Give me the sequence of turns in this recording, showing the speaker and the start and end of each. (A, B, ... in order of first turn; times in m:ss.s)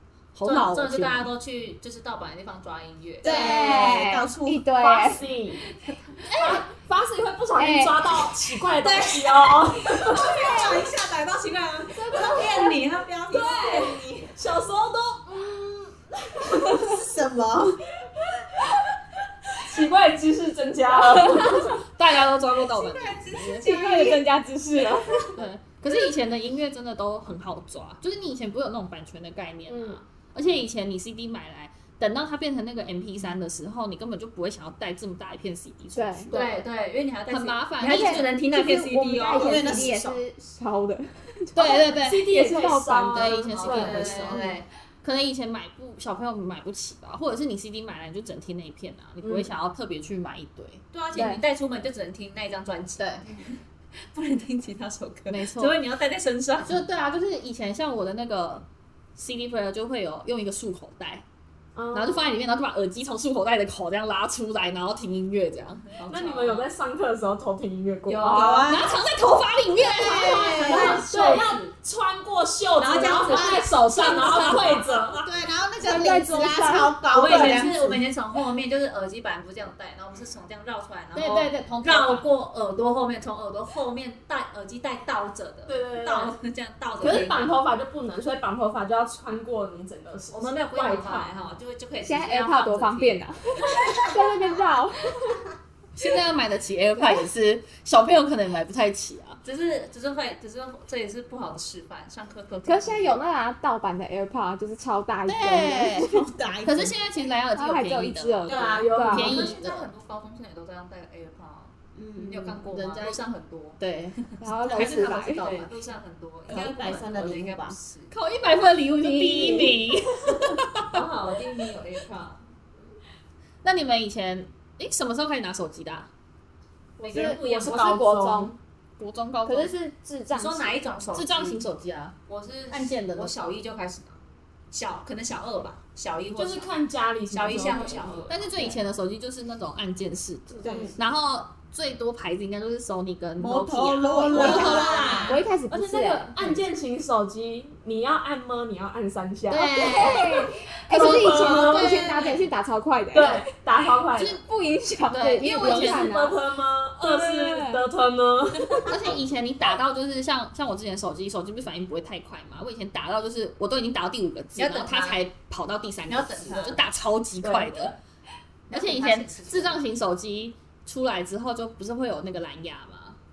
0:00.4-0:01.3 A
0:00.4-0:03.9 B
0:03.2-0:04.6 C
0:03.2-0:05.2 D
0:04.8-0:05.6 E
0:06.2-0:06.6 A
0:06.4-0:10.4 E
0:07.5-0:08.1 D
0:08.8-0:14.1 B
0:10.4-0:10.8 D
0:10.4-0:11.0 C
0:12.0-0:12.7 D
0:13.3-0:17.0 E
0:16.9-0:17.8 C
0:18.2-0:18.8 E
0:19.6-0:21.8 E
0:21.4-0:23.8 A
0:22.8-0:24.2 B
0:23.6-0:25.4 D
0:25.4-0:36.4 A
0:29.7-0:30.0 E
0:36.0-0:36.3 D
0:36.3-0:36.6 E
0:36.3-0:40.0 B
0:37.3-0:38.4 A
0:37.8-0:44.5 D
0:39.4-0:40.2 C
0:41.5-0:44.5 A
0:42.0-0:44.3 E
0:43.5-0:44.6 B
0:45.0-0:50.8 A
0:49.2-0:49.5 E
0:50.9-0:53.6 B
0:51.1-0:51.4 D
0:53.0-0:53.2 A
0:54.1-0:56.8 B
0:55.3-0:55.8 A
0:56.6-0:58.6 A
0:59.2-1:01.2 A
1:01.8-1:02.4 E
1:01.9-1:05.9 A
1:05.9-1:06.7 B
1:06.1-1:08.7 E
1:08.1-1:08.6 B
1:08.2-1:08.9 C
1:08.6-1:10.9 A
1:09.9-1:11.0 C
1:10.2-1:11.7 B
1:10.5-1:15.2 E
1:12.8-1:15.3 B
1:13.2-1:13.7 C
1:14.0-1:14.7 D
1:15.2-1:18.0 C
1:15.8-1:17.0 D
1:17.1-1:27.5 B
1:17.2-1:17.7 E
1:21.1-1:22.3 A
1:25.7-1:26.4 E
1:27.0-1:31.3 E
1:30.3-1:34.4 B
1:32.0-1:35.4 D
1:36.0-1:39.4 A
1:39.4-1:43.2 B
1:42.7-1:46.2 D
1:45.3-1:46.0 A
1:45.5-1:47.0 C
1:46.6-1:49.9 A
1:47.5-1:49.4 D
1:48.5-1:48.9 C
1:48.5-1:58.1 B
1:48.5-1:49.5 E
1:51.9-1:52.6 C
1:52.7-1:53.2 A
1:53.8-1:55.7 A
1:54.4-1:55.4 D
1:56.5-1:57.8 C
1:58.1-2:01.0 A
1:59.0-1:59.8 D
2:00.9-2:02.4 B
2:03.6-2:06.1 A
2:07.0-2:08.0 B
2:07.1-2:08.5 D
2:07.1-2:08.6 E
2:09.0-2:09.7 A
2:09.4-2:10.8 D
2:10.3-2:11.6 B
2:11.1-2:12.2 A
2:12.3-2:14.2 B
2:12.7-2:13.3 A
2:14.7-2:16.7 B
2:16.4-2:18.4 E
2:17.3-2:18.4 B
2:18.3-2:25.2 A
2:20.6-2:20.9 C
2:20.6-2:20.9 E
2:23.4-2:25.4 C
2:24.2-2:25.4 B
2:24.2-2:26.4 D
2:25.6-2:30.3 E
2:29.5-2:32.2 A
2:29.7-2:33.5 D
2:30.9-2:32.1 E
2:31.8-2:32.2 C
2:33.1-2:34.4 E
2:34.1-2:34.4 A
2:34.4-2:36.4 D
2:35.1-2:36.1 A
2:35.4-2:39.1 E
2:37.0-2:37.8 D
2:38.9-2:48.0 A
2:44.6-2:45.2 B
2:46.1-2:46.8 B
2:47.4-2:47.9 E
2:48.7-2:49.8 B
2:48.7-2:53.2 A